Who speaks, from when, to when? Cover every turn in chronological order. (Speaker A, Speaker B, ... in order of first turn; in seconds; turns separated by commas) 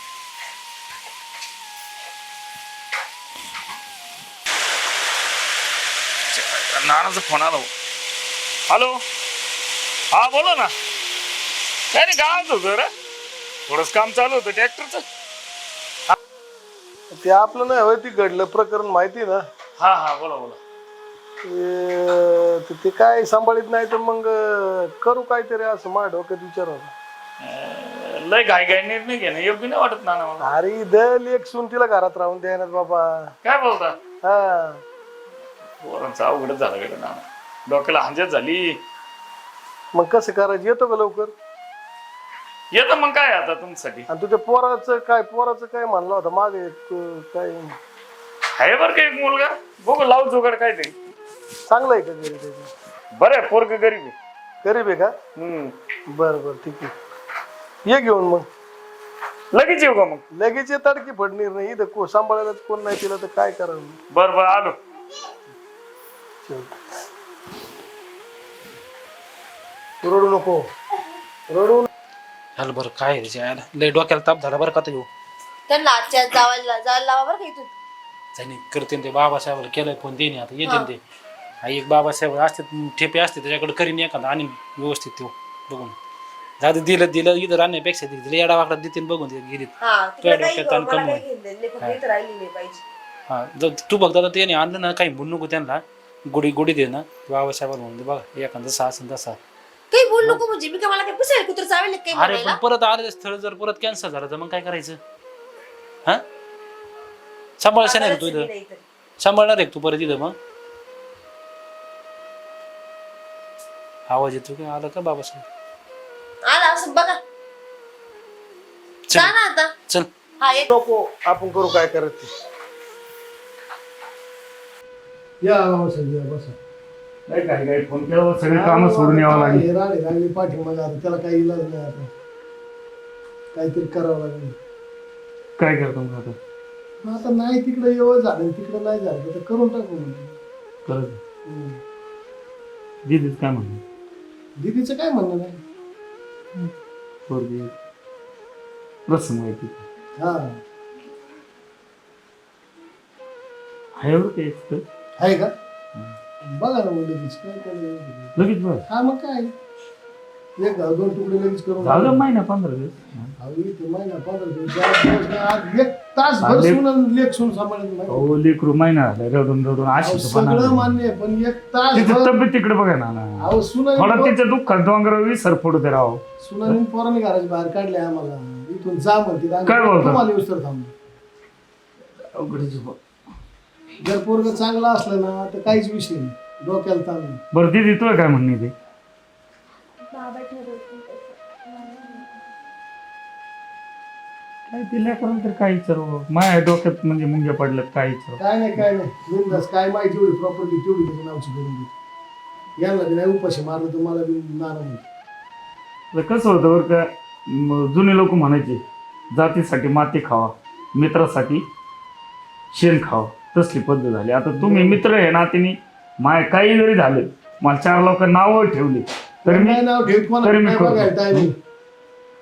Speaker A: 6.3-7.7, Speaker A: 8.7-9.0, Speaker A: 10.1-10.7, Speaker A: 11.9-12.9, Speaker A: 13.7-15.0, Speaker B: 17.1-19.4, Speaker A: 19.8-20.6, Speaker B: 21.4-26.9, Speaker A: 27.4-30.4, Speaker B: 30.4-33.3, Speaker A: 33.4-33.9, Speaker B: 34.2-34.8, Speaker A: 35.8-38.8, Speaker B: 39.9-41.3, Speaker A: 42.7-44.0, Speaker B: 44.1-47.7, Speaker A: 48.6-50.9, Speaker B: 51.6-52.7, Speaker A: 53.1-54.1, Speaker B: 54.6-55.1, Speaker A: 55.4-55.7, Speaker B: 56.1-56.9, Speaker B: 57.8-58.5, Speaker A: 59.5-60.2, Speaker B: 60.3-64.0, Speaker A: 64.1-64.8, Speaker B: 66.5-66.8, Speaker B: 70.0-70.6, Speaker B: 71.5-71.9, Speaker C: 72.6-75.1, Speaker D: 75.7-77.7, Speaker C: 78.3-81.0, Speaker D: 80.6-80.9, Speaker C: 81.6-86.0, Speaker C: 86.6-91.2, Speaker D: 89.8-92.8, Speaker C: 93.3-99.4, Speaker D: 99.9-102.6, Speaker C: 102.1-105.0, Speaker C: 107.6-108.5, Speaker D: 107.8-108.8, Speaker C: 109.2-110.3, Speaker C: 114.1-115.5, Speaker D: 116.4-117.2, Speaker C: 119.1-119.3, Speaker D: 119.1-119.7, Speaker D: 120.4-120.7, Speaker B: 120.7-122.3, Speaker B: 125.4-126.5, Speaker A: 127.3-129.6, Speaker B: 128.5-132.1, Speaker B: 133.5-134.6, Speaker A: 135.6-136.3, Speaker B: 137.0-140.4, Speaker A: 140.9-141.2, Speaker B: 141.5-141.8, Speaker A: 143.1-143.8, Speaker B: 144.6-145.6, Speaker A: 147.3-147.7, Speaker A: 149.1-149.8, Speaker B: 150.2-150.6, Speaker A: 154.0-154.8, Speaker B: 155.2-155.5, Speaker B: 156.4-158.3, Speaker A: 158.3-158.8, Speaker B: 158.9-159.5, Speaker B: 160.6-162.2, Speaker A: 161.8-163.3, Speaker B: 163.4-168.3, Speaker A: 166.4-166.8, Speaker A: 168.1-170.9, Speaker B: 170.0-172.3, Speaker A: 171.9-173.4, Speaker B: 173.4-174.3, Speaker A: 174.0-176.2, Speaker B: 176.4-180.9, Speaker A: 179.7-180.1, Speaker A: 182.3-183.0, Speaker B: 184.0-187.4, Speaker A: 187.5-188.7, Speaker E: 190.1-192.3, Speaker A: 194.7-198.4, Speaker B: 198.4-201.9, Speaker B: 202.8-205.1, Speaker A: 206.1-208.8, Speaker A: 209.3-211.6, Speaker A: 212.7-219.8, Speaker B: 214.6-215.0, Speaker B: 219.4-221.5, Speaker A: 220.4-221.4